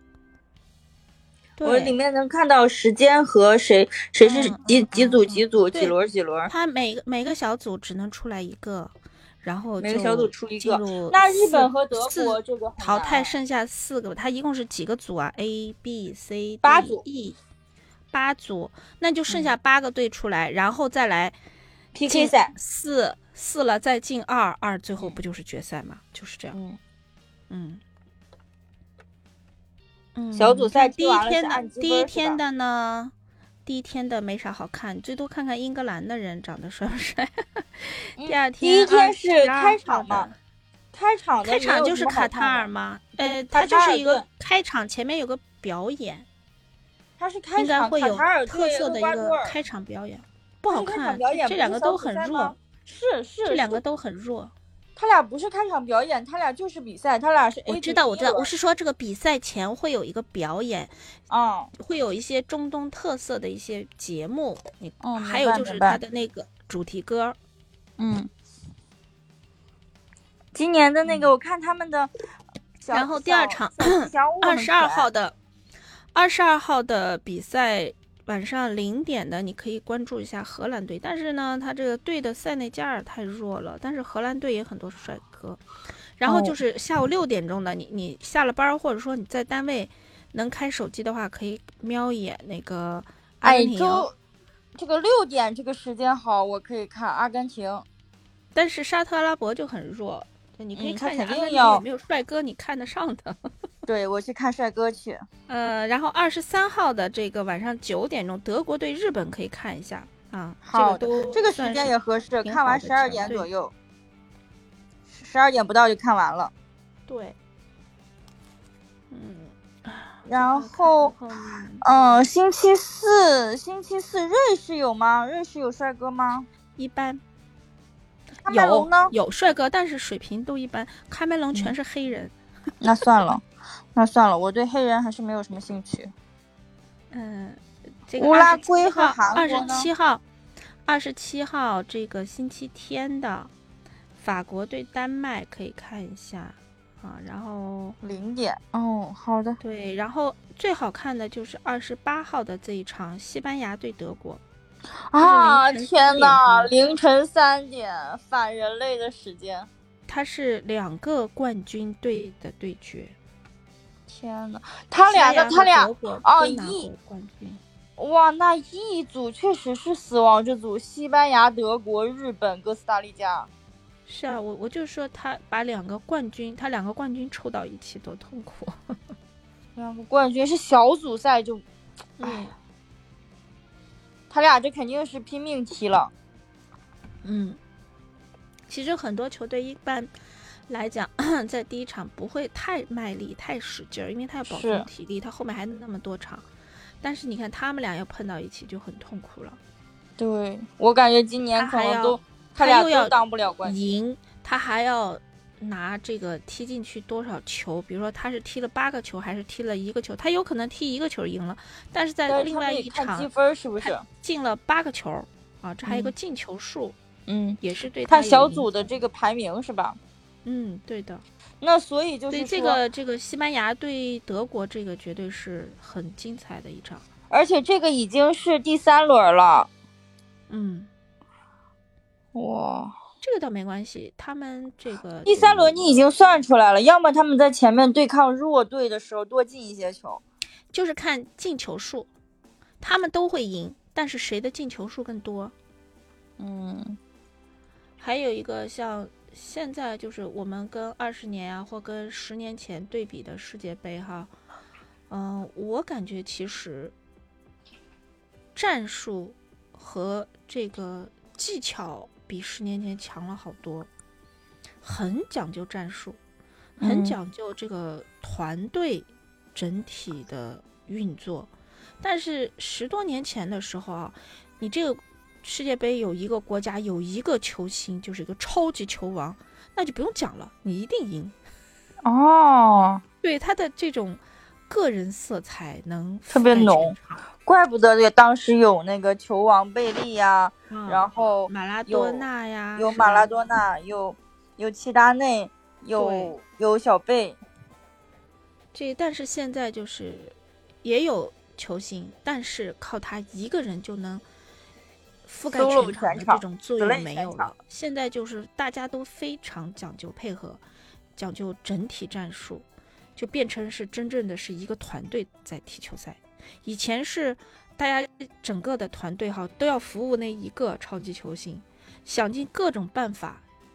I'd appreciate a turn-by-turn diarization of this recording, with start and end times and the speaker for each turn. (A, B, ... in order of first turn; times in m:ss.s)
0:01.6-0:02.0 A
0:01.6-0:06.5 B
0:04.2-0:06.0 A
0:06.5-0:17.4 A
0:09.8-0:13.4 B
0:16.6-0:17.0 B
0:18.1-0:21.4 A
0:21.9-0:22.5 B
0:22.0-0:26.6 A
0:26.5-0:26.8 B
0:27.5-0:27.8 A
0:30.1-0:33.1 A
0:30.3-0:32.4 B
0:33.6-0:40.4 A
0:38.2-0:40.3 B
0:40.9-0:42.7 B
0:41.4-0:46.3 A
0:43.2-0:44.2 B
0:47.2-0:49.6 B
0:47.6-0:52.6 A
0:50.7-0:53.8 B
0:53.4-0:54.5 A
0:55.0-0:58.5 B
0:57.7-1:00.9 A
1:01.3-1:01.7 B
1:01.7-1:07.4 A
1:05.0-1:06.0 B
1:08.0-1:08.3 B
1:10.5-1:12.1 B
1:11.0-1:11.3 A
1:12.8-1:15.1 B
1:12.9-1:15.3 A
1:16.1-1:25.6 A
1:26.2-1:34.1 A
1:26.2-1:26.6 B
1:33.4-1:34.1 B
1:34.8-1:37.8 B
1:38.5-1:43.4 A
1:40.8-1:41.8 B
1:43.8-1:45.2 B
1:45.5-1:53.5 A
1:50.6-1:53.7 B
1:55.1-1:56.5 B
1:57.1-1:57.4 A
1:59.1-2:01.8 A
2:00.2-2:01.1 B
2:01.8-2:06.5 B
2:06.8-2:07.2 A
2:08.4-2:09.1 B
2:08.5-2:12.3 A
2:12.8-2:13.4 B
2:13.9-2:16.1 B
2:17.1-2:20.2 A
2:18.2-2:19.9 B
2:20.8-2:23.5 A
2:24.2-2:28.0 A
2:28.0-2:29.6 B
2:29.6-2:34.4 A
2:35.1-2:39.7 B
2:35.2-2:36.7 A
2:40.1-2:43.2 A
2:44.1-2:46.9 B
2:45.1-2:47.6 A
2:48.0-2:53.5 B
2:54.0-2:58.7 A
2:59.7-3:01.6 B
3:02.2-3:02.5 A
3:02.2-3:02.5 B
3:04.3-3:06.1 B
3:07.2-3:07.6 A
3:08.7-3:10.1 A
3:10.7-3:16.4 A
3:14.5-3:14.9 B
3:17.0-3:19.6 A
3:20.2-3:23.8 B
3:21.6-3:37.0 A
3:32.3-3:34.0 B
3:35.8-3:36.1 B
3:37.3-3:40.0 B
3:37.6-3:38.9 A
3:40.4-3:41.2 A
3:41.6-3:42.8 B
3:42.3-3:47.0 A
3:47.3-3:49.7 B
3:50.5-3:50.9 A
3:52.3-3:52.9 B
3:53.2-3:56.0 A
3:55.2-4:00.2 B
4:00.7-4:02.1 A
4:02.8-4:05.5 A
4:06.4-4:07.0 B
4:08.0-4:14.3 A
4:15.1-4:16.9 A
4:18.5-4:23.9 A
4:24.8-4:26.2 A
4:26.8-4:27.2 B
4:26.8-4:41.4 A
4:42.0-4:43.0 B
4:43.2-4:47.2 A
4:46.3-4:57.4 B
4:50.7-4:53.3 A
4:55.9-4:56.3 A
4:58.7-5:04.2 A
5:05.2-5:10.6 A
5:05.5-5:07.5 B
5:11.2-5:23.4 A